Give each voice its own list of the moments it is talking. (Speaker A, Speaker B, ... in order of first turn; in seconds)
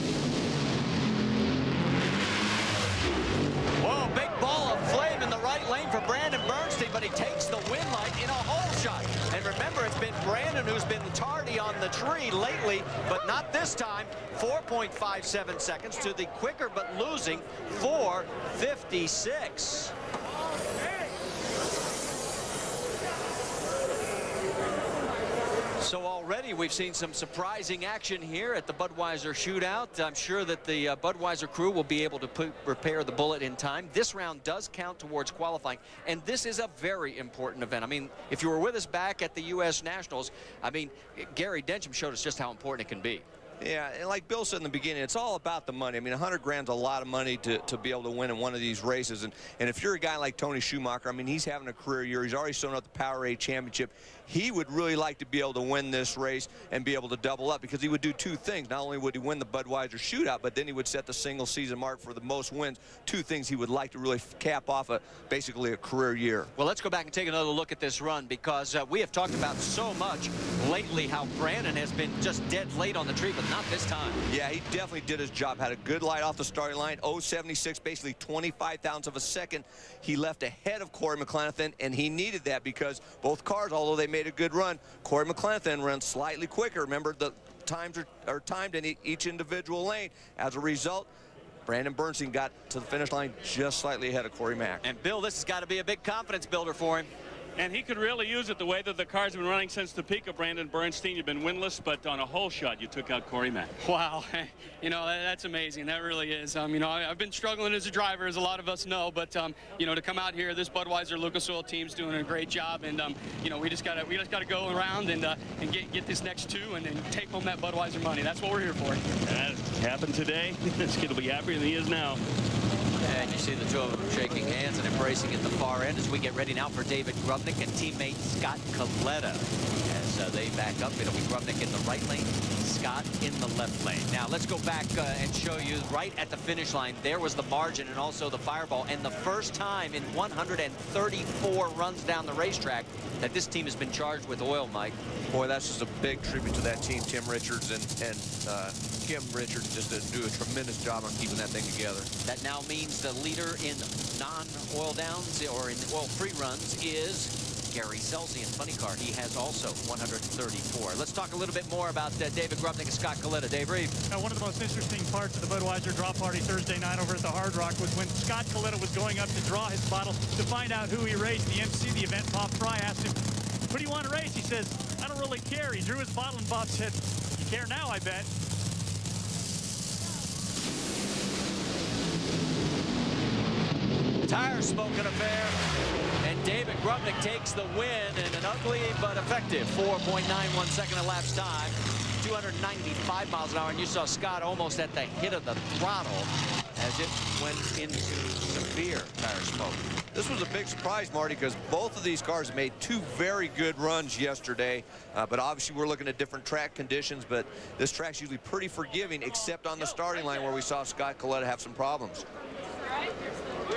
Speaker A: 3.8-19.9, 25.8-43.2, 66.6-74.2, 94.8-97.1, 123.0-145.0, 152.2-163.9, 184.2-185.6, 186.2-199.8
Speaker B: 43.6-66.5, 74.3-91.1, 91.7-94.8, 145.3-152.1, 200.1-212.2
Speaker C: 97.6-103.7, 119.3-122.2
Speaker D: 103.8-119.0
Speaker E: 164.1-173.2, 173.7-178.3